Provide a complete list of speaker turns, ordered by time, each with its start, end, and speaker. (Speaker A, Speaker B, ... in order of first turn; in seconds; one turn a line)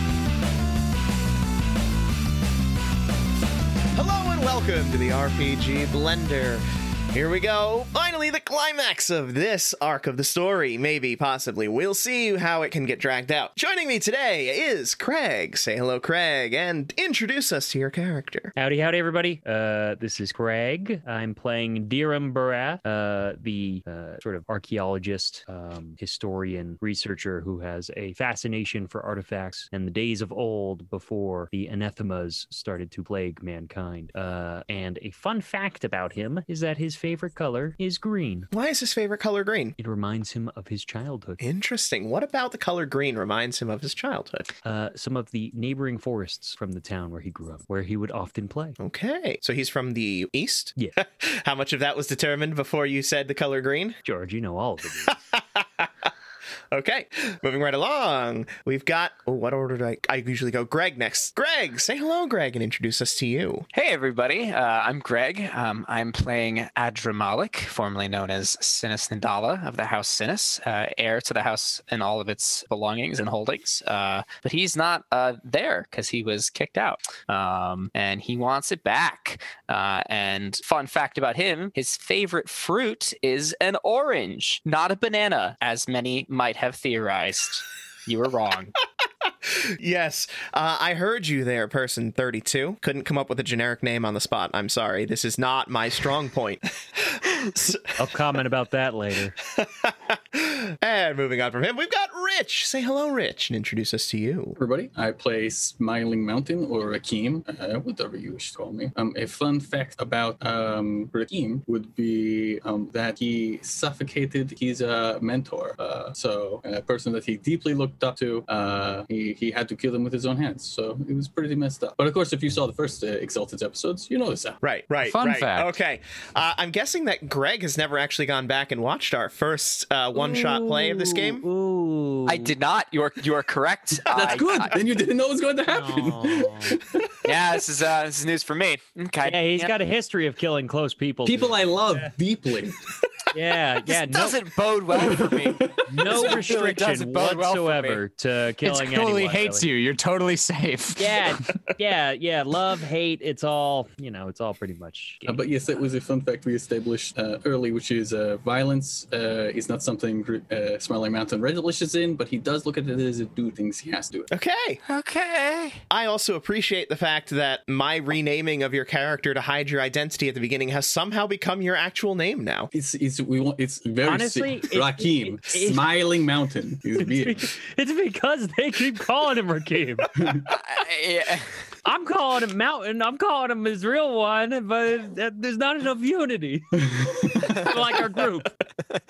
Speaker A: 3.9-18.5
Speaker B: 18.6-38.5
Speaker A: 38.5-39.8
Speaker B: 39.8-41.4
Speaker A: 41.4-44.5
Speaker B: 44.6-48.8
Speaker A: 48.8-54.0
Speaker B: 54.0-55.2
Speaker A: 55.1-56.1
Speaker A: 56.7-63.7
Speaker C: 63.7-88.8
Speaker A: 89.3-98.0
Speaker B: 98.0-99.3
Speaker A: 99.4-104.6
Speaker D: 104.6-124.6
Speaker A: 124.6-131.4
Speaker E: 125.0-125.8
Speaker B: 130.2-132.5
Speaker C: 132.3-134.8
Speaker D: 134.1-137.1
Speaker B: 135.7-136.8
Speaker C: 137.2-139.7
Speaker B: 139.2-142.1
Speaker D: 141.2-142.8
Speaker B: 143.3-144.4
Speaker C: 143.9-146.2
Speaker D: 144.9-146.0
Speaker B: 145.9-149.7
Speaker E: 146.1-148.0
Speaker E: 148.6-151.4
Speaker B: 151.0-155.4
Speaker D: 155.2-164.3
Speaker A: 164.3-164.8
Speaker C: 164.9-165.8
Speaker A: 165.9-172.7
Speaker D: 172.7-177.5
Speaker B: 174.0-175.9
Speaker B: 176.9-180.1
Speaker D: 180.2-180.5
Speaker C: 180.5-181.5
Speaker B: 181.8-188.5
Speaker D: 186.8-187.6